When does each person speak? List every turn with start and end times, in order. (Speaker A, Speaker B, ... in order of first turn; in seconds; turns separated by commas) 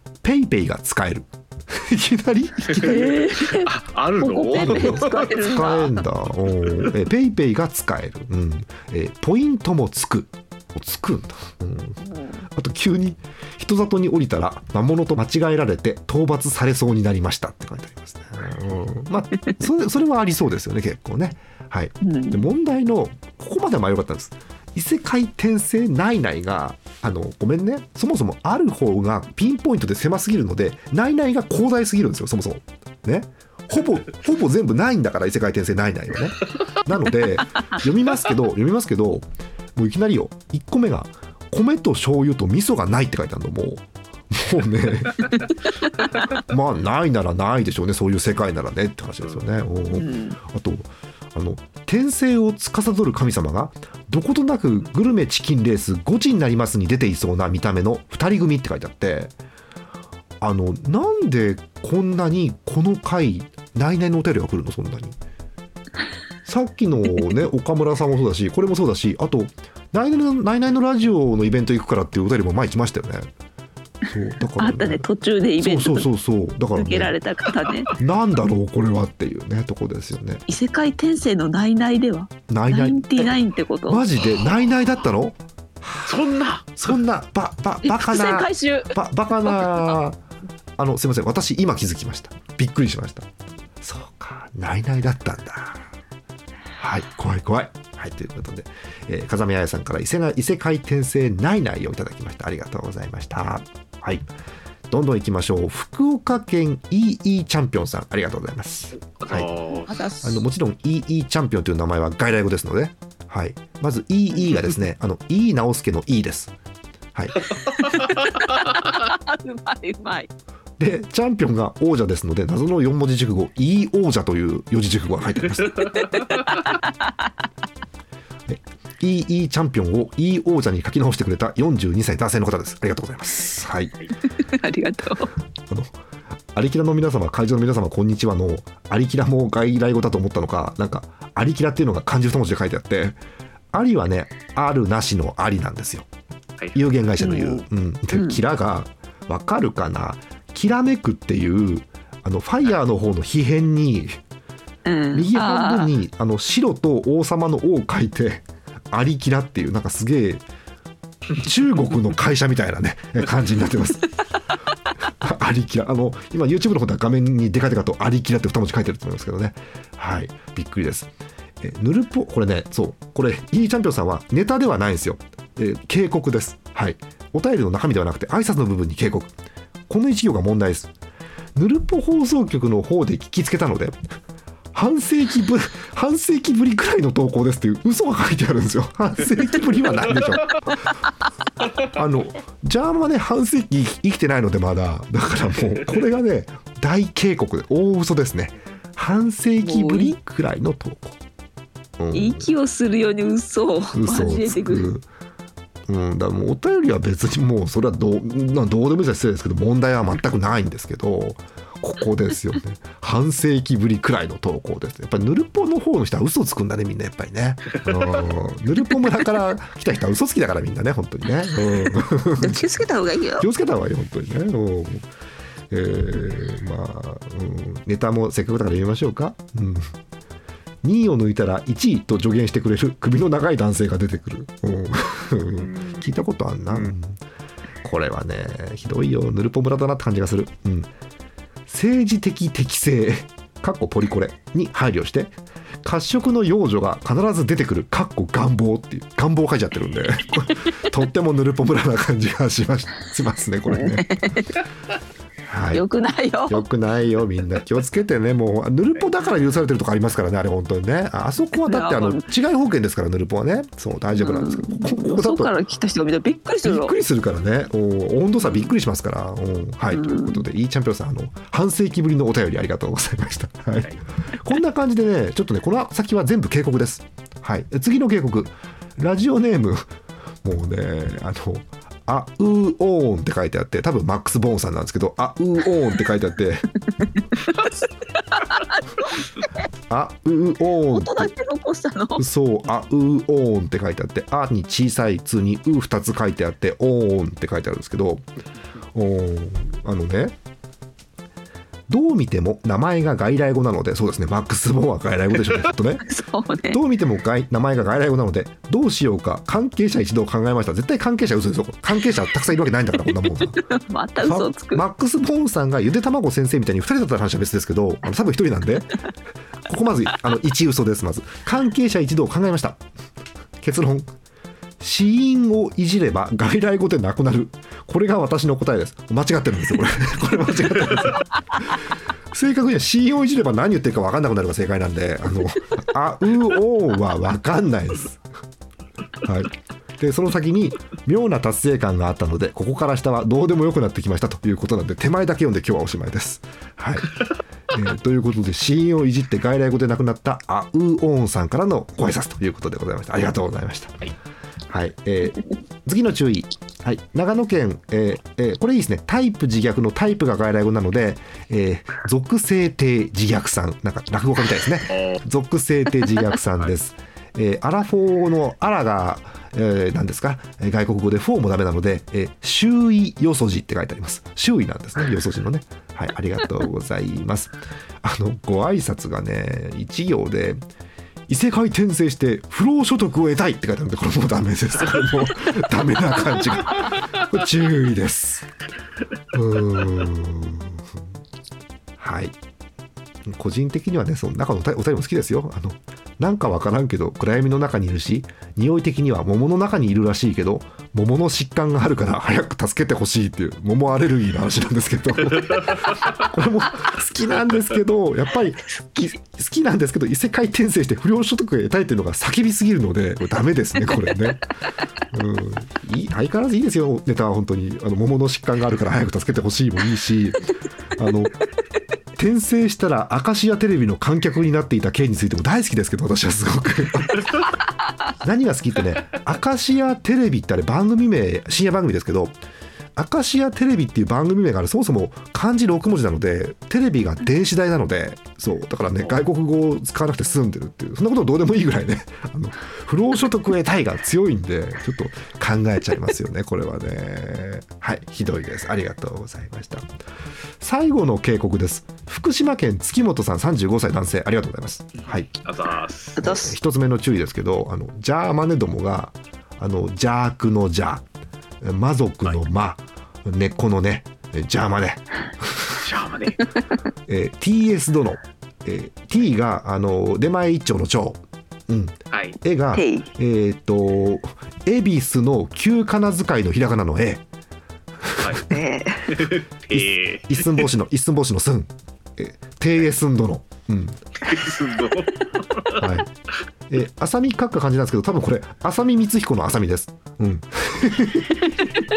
Speaker A: 0.2-3.0, Speaker B: 2.7-5.7, Speaker C: 2.8-5.9, Speaker A: 4.5-12.0, Speaker C: 12.0-12.4, Speaker A: 12.5-45.2, Speaker C: 22.0-22.4, Speaker A: 46.5-59.3, Speaker C: 49.9-50.4, Speaker A: 60.4-65.2, Speaker A: 66.4-73.3, Speaker A: 74.1-75.1, Speaker C: 74.6-76.1, Speaker A: 75.6-77.2, Speaker C: 76.8-77.9, Speaker A: 78.0-80.4, Speaker C: 80.5-84.0, Speaker A: 82.5-86.2, Speaker B: 86.0-86.9, Speaker A: 86.8-90.2, Speaker C: 87.8-88.9, Speaker A: 90.8-93.2, Speaker A: 93.8-95.8, Speaker A: 96.8-104.2, Speaker A: 104.9-109.5, Speaker B: 109.0-110.0, Speaker C: 109.9-110.4, Speaker A: 110.2-116.5, Speaker C: 117.8-120.3, Speaker A: 120.8-125.8, Speaker C: 125.9-127.3, Speaker A: 128.5-133.9, Speaker C: 134.4-135.3, Speaker A: 136.5-143.2, Speaker A: 143.7-146.1, Speaker B: 146.6-146.8, Speaker A: 146.7-154.2, Speaker C: 147.2-148.4, Speaker C: 154.8-155.9, Speaker A: 155.1-160.4, Speaker A: 161.3-164.0, Speaker A: 165.2-171.1, Speaker A: 171.6-179.3, Speaker A: 179.9-180.9, Speaker A: 181.5-184.0, Speaker A: 184.7-190.6, Speaker A: 191.9-201.2, Speaker C: 199.6-200.1, Speaker A: 202.0-202.5, Speaker C: 202.1-204.9, Speaker A: 203.9-205.0, Speaker A: 205.9-222.7, Speaker B: 217.7-218.1, Speaker C: 222.4-223.5, Speaker A: 223.4-225.0, Speaker A: 225.7-229.9, Speaker A: 230.8-237.2, Speaker B: 235.6-236.1, Speaker A: 237.8-240.9, Speaker A: 241.7-254.0, Speaker C: 253.7-254.5, Speaker A: 255.5-255.8, Speaker C: 255.7-256.6, Speaker A: 256.5-265.5, Speaker C: 261.6-262.2, Speaker C: 264.2-266.9, Speaker A: 266.6-279.9, Speaker C: 269.9-270.4, Speaker A: 280.4-286.6, Speaker C: 287.0-287.7, Speaker C: 288.3-289.4, Speaker A: 289.9-291.3, Speaker C: 290.9-292.2, Speaker A: 292.2-298.2, Speaker A: 298.9-300.3, Speaker A: 301.9-306.0, Speaker C: 306.0-306.8, Speaker A: 306.7-313.6, Speaker C: 313.6-314.8, Speaker A: 314.2-318.9, Speaker A: 319.6-322.8, Speaker A: 323.6-324.1, Speaker A: 324.8-338.2, Speaker A: 339.2-347.2, Speaker A: 347.7-354.0, Speaker A: 354.7-380.6, Speaker B: 364.9-365.2, Speaker A: 381.3-388.5, Speaker A: 389.3-390.8, Speaker A: 392.0-392.4, Speaker A: 393.2-414.4, Speaker A: 415.1-420.4, Speaker A: 420.9-421.4, Speaker A: 422.2-427.3, Speaker A: 428.2-432.4, Speaker A: 432.9-449.9, Speaker A: 450.6-455.3, Speaker B: 455.0-456.2, Speaker C: 456.2-456.5, Speaker A: 456.2-461.0, Speaker A: 461.6-465.8, Speaker B: 465.8-466.4, Speaker A: 467.1-477.2, Speaker B: 472.1-472.4, Speaker C: 472.7-473.1, Speaker A: 478.0-478.4, Speaker B: 478.2-478.4, Speaker C: 478.5-479.0, Speaker B: 479.1-480.7, Speaker A: 479.7-484.0, Speaker B: 484.2-485.8, Speaker A: 485.8-486.1, Speaker A: 486.7-491.5